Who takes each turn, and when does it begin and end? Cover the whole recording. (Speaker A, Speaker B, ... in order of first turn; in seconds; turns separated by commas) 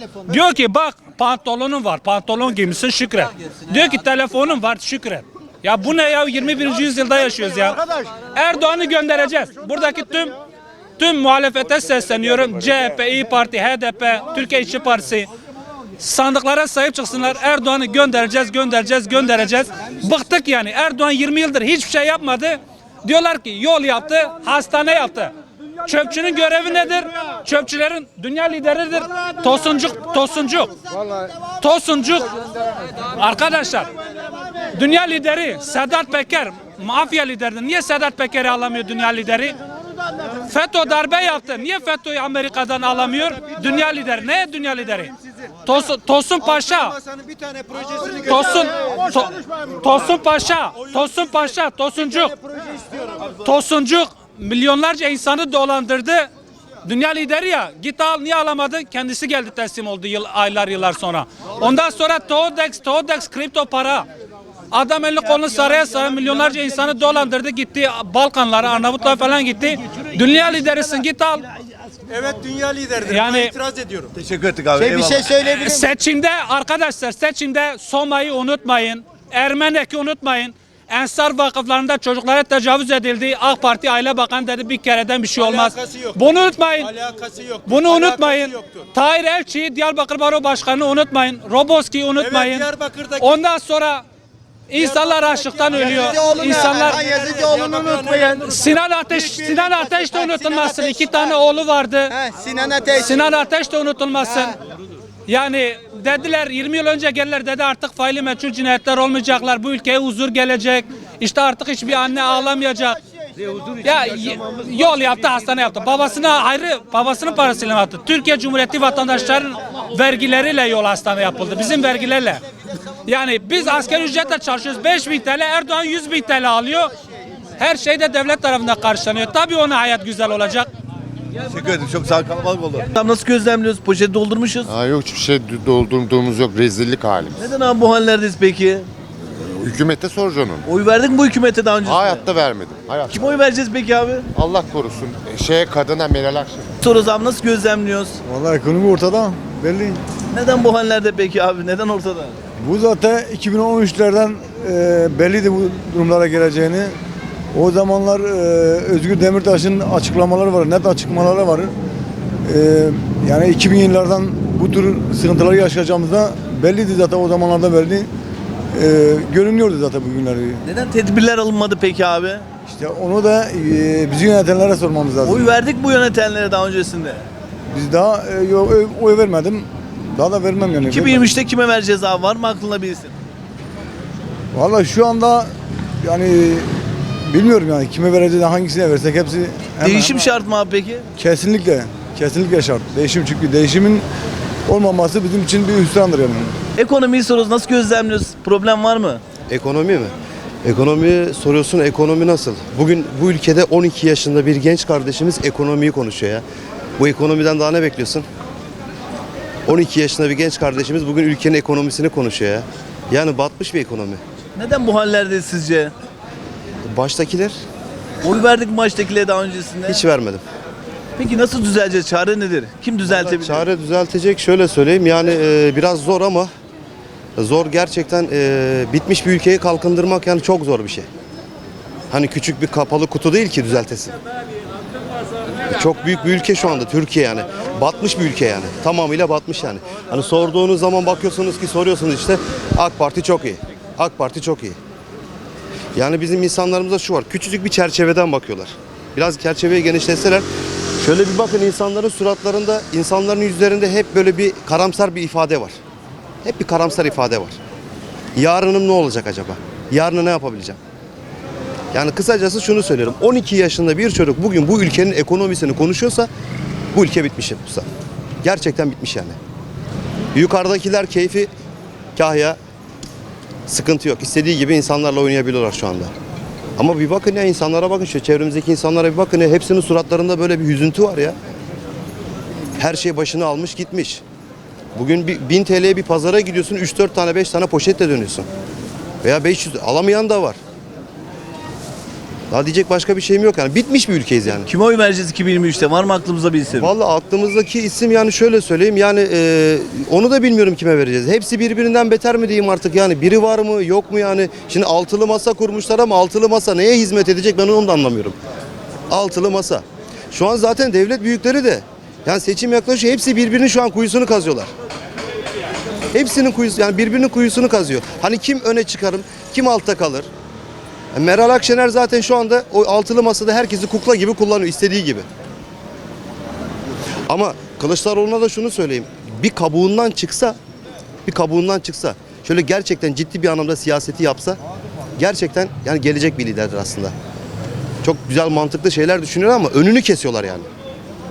Speaker A: 0.2-7.8, Speaker A: 8.3-10.3, Speaker A: 11.0-15.3, Speaker A: 16.0-25.3, Speaker A: 25.8-30.7, Speaker A: 31.6-32.3, Speaker A: 33.1-33.9, Speaker A: 34.7-39.5, Speaker A: 40.5-45.1, Speaker A: 45.6-47.0, Speaker A: 48.1-52.3, Speaker A: 53.3-56.3, Speaker A: 56.8-64.1, Speaker A: 64.7-71.4, Speaker B: 72.2-72.9, Speaker A: 73.0-73.5, Speaker B: 73.6-74.1, Speaker C: 74.2-75.0, Speaker D: 74.8-75.9, Speaker A: 75.3-87.0, Speaker B: 87.0-87.5, Speaker A: 87.6-94.0, Speaker B: 92.6-93.1, Speaker A: 94.7-97.0, Speaker D: 95.7-98.5, Speaker A: 98.4-102.1, Speaker D: 99.1-101.3, Speaker D: 102.1-103.3, Speaker A: 103.0-104.5, Speaker D: 104.2-104.6, Speaker A: 105.3-113.0, Speaker A: 113.8-122.4, Speaker A: 123.0-126.9, Speaker A: 127.6-130.7, Speaker C: 132.9-134.7, Speaker E: 134.7-137.4, Speaker C: 137.3-138.9, Speaker E: 139.6-140.6, Speaker C: 140.6-142.3, Speaker E: 141.8-143.3, Speaker C: 143.1-144.3, Speaker E: 144.3-146.7, Speaker C: 146.8-148.2, Speaker F: 148.2-150.0, Speaker C: 150.3-152.3, Speaker F: 152.6-156.9, Speaker F: 157.5-161.7, Speaker F: 162.4-168.1, Speaker F: 168.7-170.6, Speaker C: 170.6-172.5, Speaker F: 172.7-175.4, Speaker C: 175.2-177.2, Speaker F: 177.7-181.3, Speaker C: 180.9-183.1, Speaker F: 184.5-186.7, Speaker F: 187.3-190.4, Speaker C: 189.8-191.1, Speaker F: 191.2-194.0, Speaker F: 194.7-196.5, Speaker C: 196.8-199.2, Speaker G: 199.5-200.1, Speaker G: 200.6-206.4, Speaker G: 207.0-208.2, Speaker G: 209.7-214.2, Speaker C: 214.6-215.9, Speaker G: 216.9-217.6, Speaker C: 218.2-220.0, Speaker G: 219.8-220.4, Speaker C: 221.2-223.7, Speaker G: 223.1-226.5, Speaker G: 227.4-231.1, Speaker G: 232.1-234.1, Speaker G: 235.7-244.8, Speaker G: 245.9-250.4, Speaker G: 251.0-255.7, Speaker G: 256.4-257.6, Speaker G: 258.4-260.8, Speaker G: 261.9-266.3, Speaker G: 266.9-267.9, Speaker G: 268.4-269.4, Speaker G: 270.3-271.5, Speaker G: 272.1-272.6, Speaker G: 273.7-276.1, Speaker G: 276.8-281.3, Speaker G: 282.8-284.2, Speaker G: 284.9-288.5, Speaker G: 289.2-290.6, Speaker G: 292.5-294.7, Speaker C: 294.6-296.9, Speaker G: 296.8-308.4, Speaker G: 309.1-314.7, Speaker G: 316.1-320.3, Speaker G: 321.1-325.2, Speaker G: 327.3-330.6, Speaker G: 331.3-334.6, Speaker G: 335.2-337.1, Speaker G: 338.0-340.7